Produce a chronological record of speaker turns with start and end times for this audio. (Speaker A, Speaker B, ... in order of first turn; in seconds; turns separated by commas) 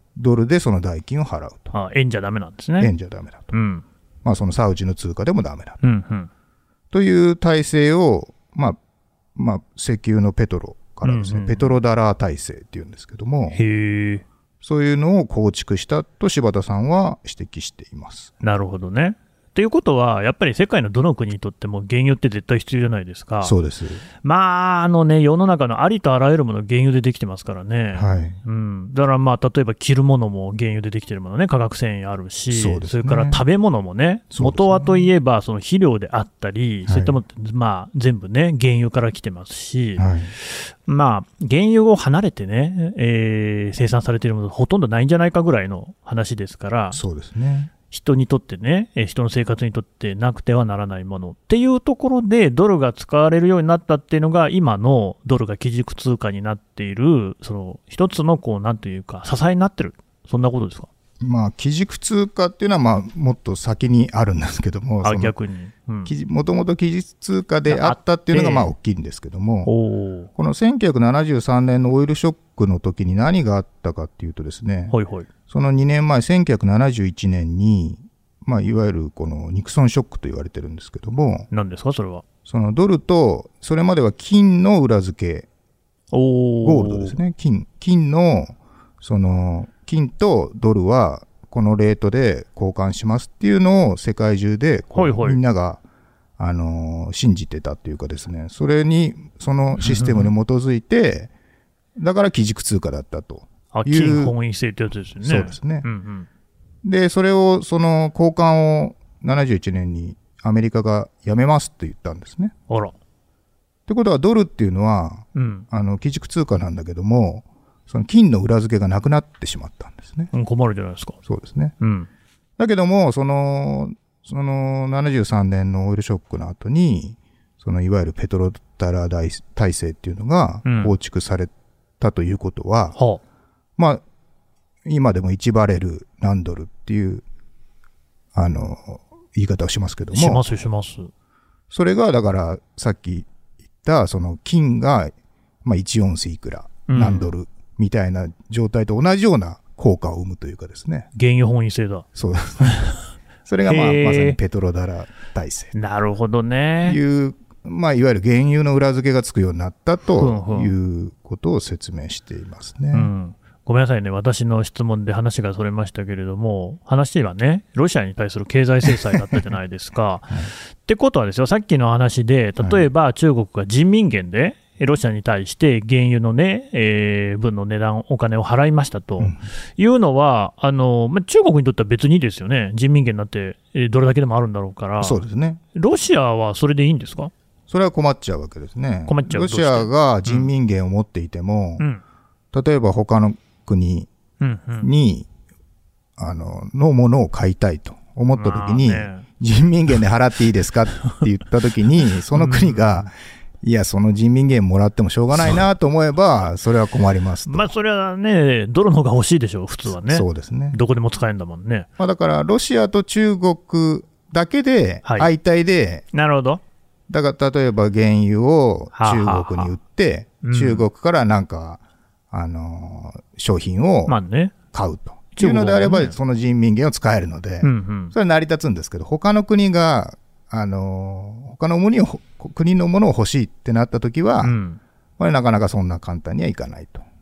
Speaker A: 0.1-1.7, Speaker B: 1.7-2.9, Speaker A: 2.8-3.5, Speaker B: 3.5-3.8, Speaker A: 4.2-5.8, Speaker B: 5.8-6.3, Speaker A: 6.9-8.8, Speaker A: 9.3-13.6, Speaker B: 11.0-11.8, Speaker B: 13.5-14.2, Speaker A: 14.6-18.3, Speaker B: 18.4-23.5, Speaker A: 23.4-24.0, Speaker B: 24.2-47.0, Speaker A: 27.9-28.4, Speaker A: 32.5-33.4, Speaker A: 34.3-35.1, Speaker A: 36.9-37.2, Speaker A: 40.0-40.3, Speaker A: 46.9-47.7, Speaker B: 47.9-60.9, Speaker A: 61.2-65.3, Speaker B: 65.0-66.1, Speaker A: 66.0-69.7, Speaker B: 67.7-68.7, Speaker B: 69.6-70.3, Speaker A: 70.4-74.9, Speaker B: 74.9-75.3, Speaker A: 75.5-81.5, Speaker B: 81.5-82.2, Speaker A: 82.5-85.5, Speaker B: 86.1-87.2, Speaker A: 86.6-95.8, Speaker B: 94.9-95.4, Speaker A: 96.4-101.3, Speaker B: 99.8-100.3, Speaker A: 102.0-104.3, Speaker B: 103.7-106.3, Speaker A: 105.2-105.9, Speaker A: 106.8-112.5, Speaker B: 112.7-112.9, Speaker A: 113.9-120.3, Speaker B: 115.3-115.7, Speaker B: 120.3-121.2, Speaker A: 121.2-121.7, Speaker B: 121.8-122.1, Speaker A: 122.6-132.9, Speaker B: 130.6-130.9, Speaker B: 132.9-133.2, Speaker A: 133.8-134.0, Speaker A: 134.8-137.2, Speaker A: 138.3-140.4, Speaker B: 140.1-141.1, Speaker A: 141.7-143.3, Speaker A: 143.8-151.1, Speaker B: 146.9-147.3, Speaker B: 151.1-152.1, Speaker A: 152.1-152.9, Speaker B: 152.6-153.0, Speaker A: 153.4-155.7, Speaker B: 153.6-154.4, Speaker B: 155.7-157.0, Speaker A: 156.8-163.1, Speaker B: 160.2-160.7, Speaker B: 162.9-185.2, Speaker A: 172.6-172.8, Speaker A: 185.0-185.6, Speaker B: 185.7-187.3, Speaker A: 187.7-191.8, Speaker B: 189.1-190.5, Speaker A: 192.5-194.1, Speaker B: 194.4-194.9, Speaker A: 194.8-195.3, Speaker A: 196.2-203.1, Speaker B: 198.3-199.2, Speaker B: 202.3-203.1, Speaker A: 203.6-207.7, Speaker B: 207.5-211.9, Speaker A: 209.9-210.8, Speaker A: 212.0-216.0, Speaker B: 215.0-215.3, Speaker B: 216.1-216.6, Speaker A: 217.1-224.2, Speaker B: 218.9-219.7, Speaker B: 220.4-220.8, Speaker B: 224.1-224.5, Speaker A: 224.7-234.5, Speaker B: 225.3-226.1, Speaker B: 227.6-228.1, Speaker B: 234.4-234.8, Speaker A: 235.2-237.0